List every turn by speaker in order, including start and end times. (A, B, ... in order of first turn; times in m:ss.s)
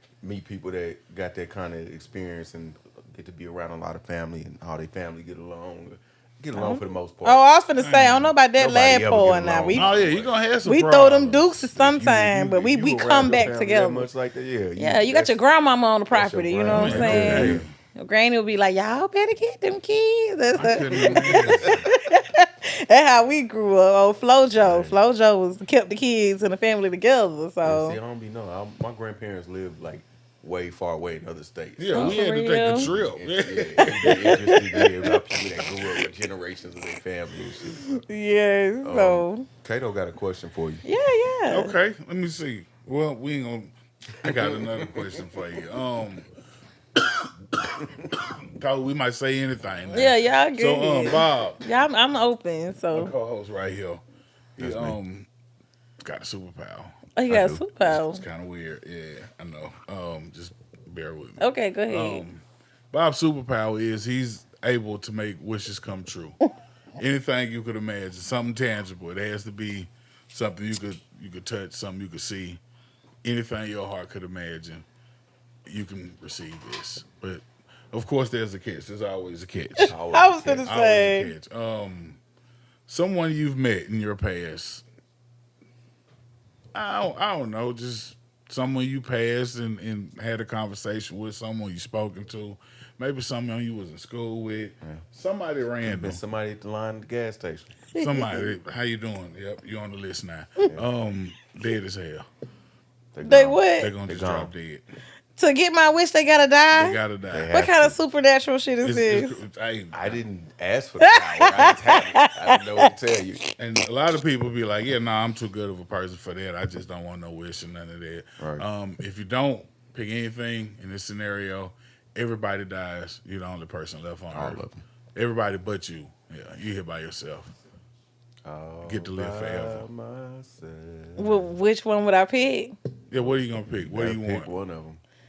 0:00.2-0:07.4 A
0:06.5-0:09.9 B
0:07.8-0:08.3 C
0:08.6-0:10.3 A
0:09.7-0:11.9 C
0:10.6-0:14.1 B
0:11.8-0:15.4 A
0:14.8-0:28.0 B
0:16.1-0:17.7 A
0:16.7-0:17.7 C
0:20.6-0:21.9 C
0:20.6-0:21.8 A
0:24.6-0:25.0 A
0:27.6-0:32.2 A
0:31.8-0:35.0 C
0:31.9-0:32.9 B
0:32.7-0:37.9 A
0:34.0-0:34.5 B
0:37.9-0:39.5 B
0:38.8-0:40.8 A
0:40.8-0:41.7 B
0:41.5-0:46.3 C
0:44.3-0:44.9 A
0:48.6-0:51.6 C
0:49.9-0:53.1 B
0:52.9-0:54.0 C
0:54.6-0:55.3 C
0:54.6-0:55.0 A
0:56.0-0:57.1 C
0:57.2-0:58.2 B
0:57.3-0:57.6 A
0:57.8-1:06.4 C
1:01.4-1:02.2 B
1:07.0-1:12.6 C
1:13.2-1:14.9 C
1:15.7-1:20.0 C
1:19.9-1:20.7 A
1:20.1-1:21.3 B
1:20.6-1:22.2 C
1:22.9-1:24.8 C
1:26.7-1:36.2 C
1:35.8-1:37.8 A
1:38.0-1:38.5 B
1:38.0-1:42.3 C
1:43.1-1:44.5 A
1:43.2-1:43.9 B
1:43.8-1:44.8 C
1:45.4-1:47.0 B
1:46.7-1:47.5 C
1:47.3-1:48.0 A
1:47.5-1:49.4 B
1:48.8-1:50.2 C
1:49.9-1:53.4 A
1:51.0-1:52.6 B
1:53.6-2:04.6 C
1:58.4-1:58.7 A
2:04.3-2:04.8 A
2:05.2-2:07.5 C
2:08.4-2:11.5 A
2:08.8-2:09.9 C
2:11.2-2:12.8 B
2:13.1-2:14.5 C
2:13.2-2:15.0 A